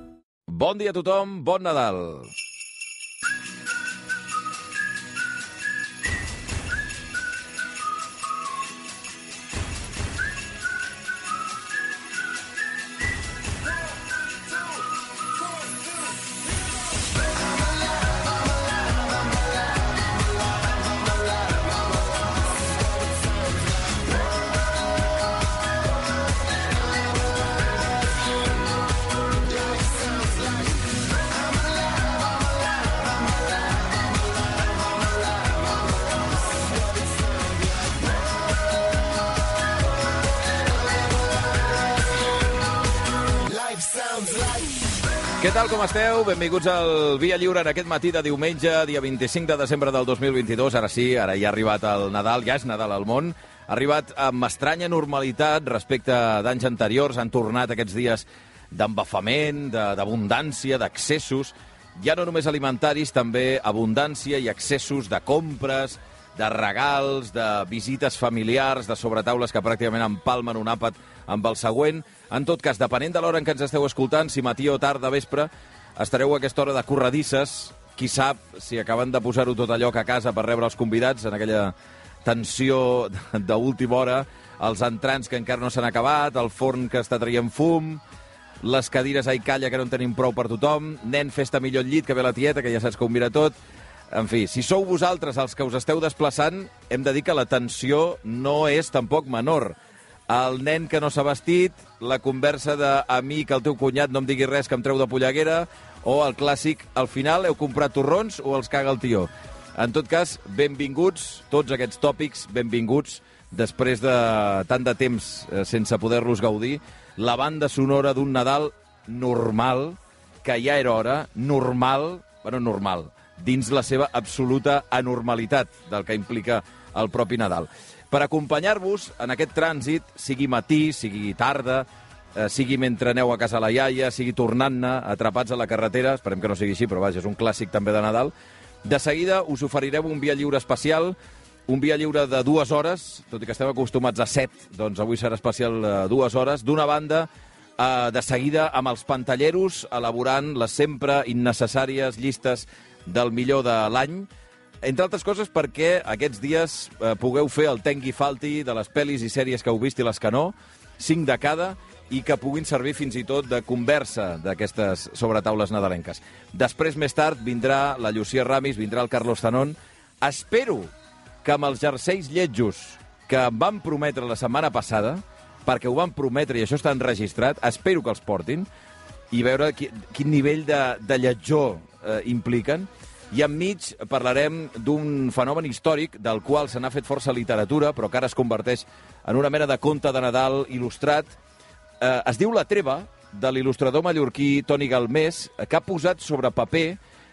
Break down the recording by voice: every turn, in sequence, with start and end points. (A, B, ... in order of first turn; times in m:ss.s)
0:00.5-0:02.3 A
0:45.4-1:28.0 A
1:28.6-1:33.6 A
1:34.1-1:39.8 A
1:40.3-2:18.3 A
2:18.8-2:21.2 A
2:21.7-2:34.3 A
2:34.8-2:50.9 A
2:51.4-2:58.7 A
2:59.3-3:11.3 A
3:12.0-3:17.0 A